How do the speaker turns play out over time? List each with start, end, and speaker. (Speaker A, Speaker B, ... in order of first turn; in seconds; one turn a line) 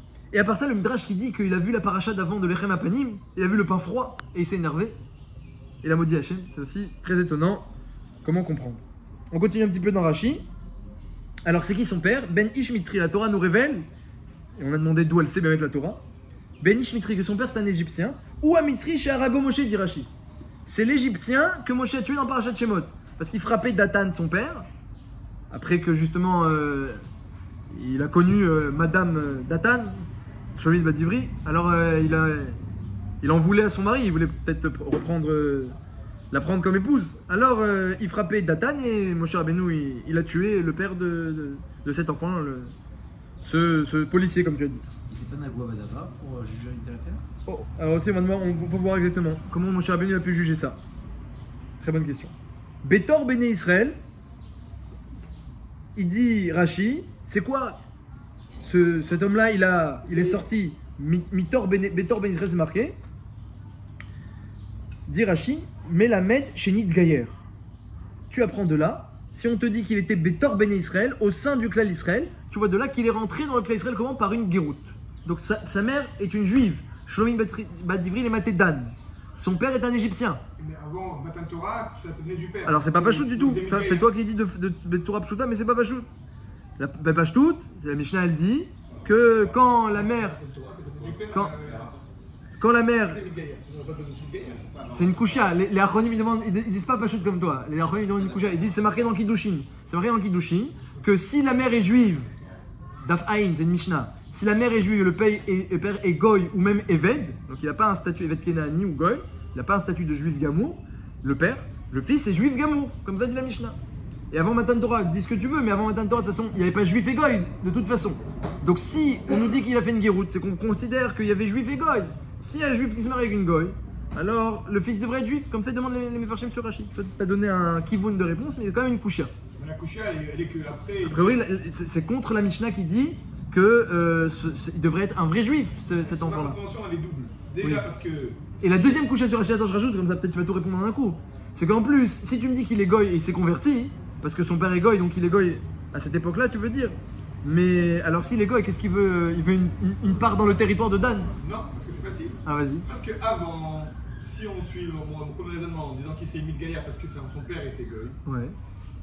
Speaker A: 0.3-5.0
Speaker A: 5.8-7.7
Speaker A: 8.2-10.5
Speaker A: 11.4-13.9
Speaker A: 14.6-16.0
Speaker A: 16.6-20.1
Speaker A: 20.7-24.7
Speaker A: 25.5-27.0
Speaker A: 27.7-32.6
Speaker A: 33.2-35.8
Speaker A: 36.3-42.7
Speaker A: 43.4-44.8
Speaker B: 45.1-47.2
Speaker A: 47.5-50.8
Speaker A: 51.8-54.0
Speaker A: 56.0-57.8
Speaker A: 58.6-63.0
Speaker A: 65.1-67.4
Speaker A: 68.3-80.4
Speaker C: 80.6-84.1
Speaker A: 82.7-86.1
Speaker A: 86.8-90.4
Speaker C: 88.9-91.9
Speaker B: 91.0-92.0
Speaker A: 91.3-91.6
Speaker A: 92.6-93.2
Speaker C: 93.0-94.7
Speaker B: 94.4-95.6
Speaker A: 94.9-102.3
Speaker B: 98.2-99.0
Speaker A: 103.0-113.8
Speaker A: 114.3-129.3
Speaker C: 129.6-131.4
Speaker A: 131.0-136.6
Speaker C: 135.9-138.5
Speaker A: 137.6-137.9
Speaker A: 138.6-151.3
Speaker C: 151.4-158.2
Speaker A: 152.4-152.9
Speaker A: 158.3-158.6